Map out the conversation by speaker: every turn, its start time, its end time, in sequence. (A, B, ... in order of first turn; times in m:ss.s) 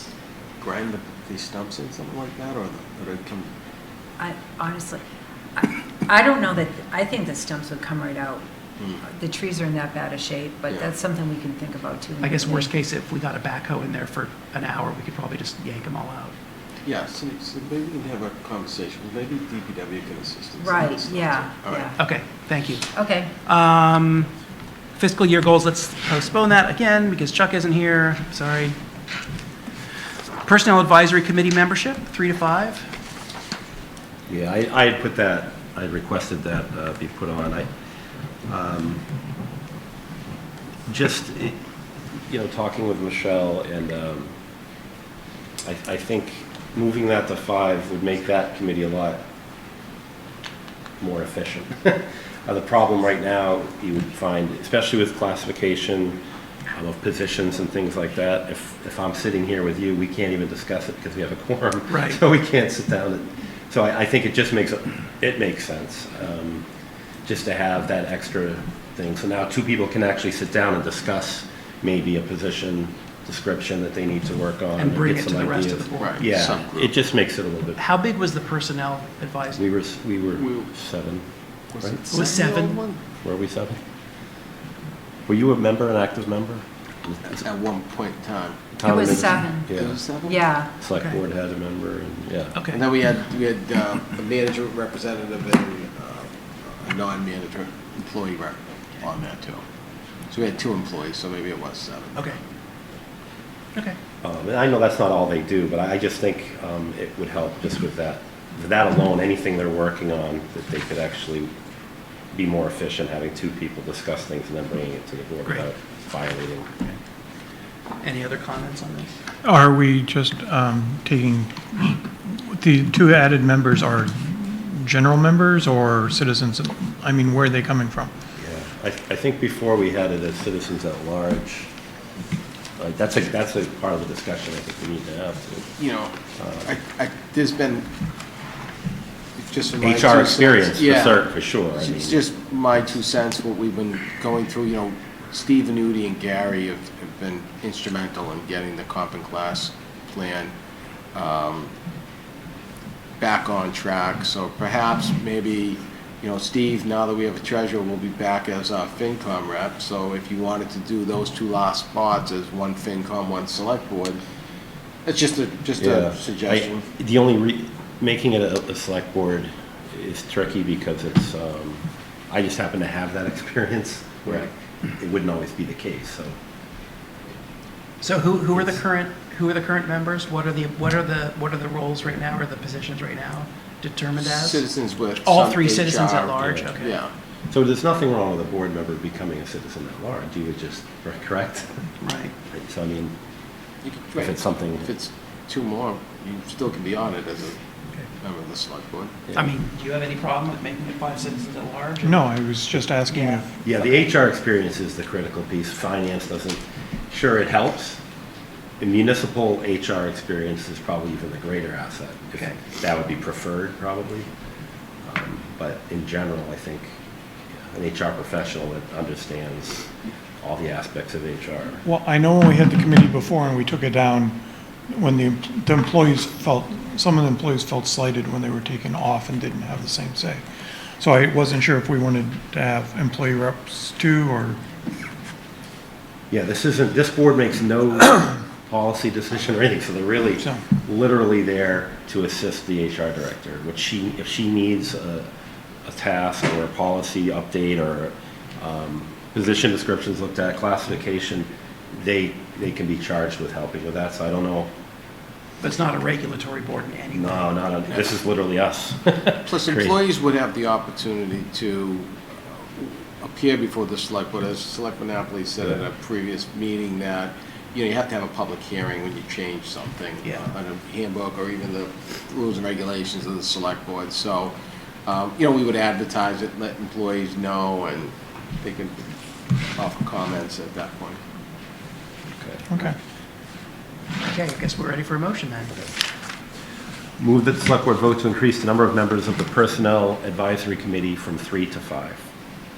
0:00.6-0:03.5 A
0:04.2-0:05.0 B
0:05.6-0:08.4 B
0:09.0-0:12.7 B
0:12.2-0:16.3 C
0:16.8-0:21.9 A
0:20.6-0:22.0 B
0:22.0-0:22.8 C
0:22.9-0:23.3 B
0:23.4-0:24.3 C
0:25.0-0:28.8 C
0:30.4-0:32.9 C
0:34.3-0:37.7 D
0:38.5-0:39.0 D
0:40.9-0:41.6 D
0:42.3-0:44.3 D
0:45.6-0:49.2 D
0:51.0-1:06.6 D
1:01.9-1:02.2 C
1:07.3-1:17.8 D
1:14.8-1:16.3 C
1:16.0-1:16.9 A
1:17.8-1:19.6 C
1:19.6-1:21.3 D
1:21.7-1:23.0 A
1:22.1-1:22.8 C
1:23.2-1:23.8 D
1:25.3-1:27.4 D
1:27.3-1:28.7 A
1:28.8-1:30.0 D
1:28.8-1:29.7 B
1:29.7-1:30.5 A
1:30.2-1:30.7 B
1:30.8-1:32.6 D
1:31.0-1:31.2 C
1:32.6-1:32.8 C
1:32.7-1:39.6 A
1:40.3-1:42.4 A
1:44.2-1:51.5 D
1:52.3-1:56.7 D
1:58.0-1:59.1 C
1:59.4-2:08.1 E
2:08.4-2:11.7 D
2:12.8-2:15.7 D
2:15.8-2:17.9 A
2:16.4-2:16.7 D
2:19.4-2:21.2 A
2:19.8-2:22.2 D
2:21.8-2:30.5 A
2:31.1-2:31.7 A
2:33.2-2:44.2 A
2:45.0-2:46.8 A
2:45.8-2:56.4 D
2:58.0-3:04.6 C
3:04.2-3:07.1 A
3:05.2-3:07.0 C
3:06.4-3:06.7 D
3:07.5-3:11.8 D
3:12.0-3:12.3 C
3:12.5-3:13.1 D
3:13.8-3:17.6 A
3:14.2-3:14.9 D
3:18.2-3:19.3 A
3:19.4-3:22.3 C
3:22.0-3:23.5 E
3:23.1-3:23.7 C
3:23.6-3:28.0 D
3:28.8-3:34.3 D
3:35.0-3:36.9 D
3:37.7-3:39.9 D
3:40.4-3:41.8 D
3:41.8-3:44.4 E
3:44.9-3:50.4 E
3:51.0-3:54.6 E
3:56.3-4:05.3 D
4:05.8-4:14.7 D
4:15.6-4:17.5 C
4:17.1-4:20.0 D
4:19.5-4:22.1 A
4:22.8-4:34.5 A
4:35.0-4:39.1 A
4:39.8-4:41.2 A
4:42.4-4:42.6 D
4:42.7-4:43.0 E
4:44.2-4:45.8 C
4:47.2-4:52.2 D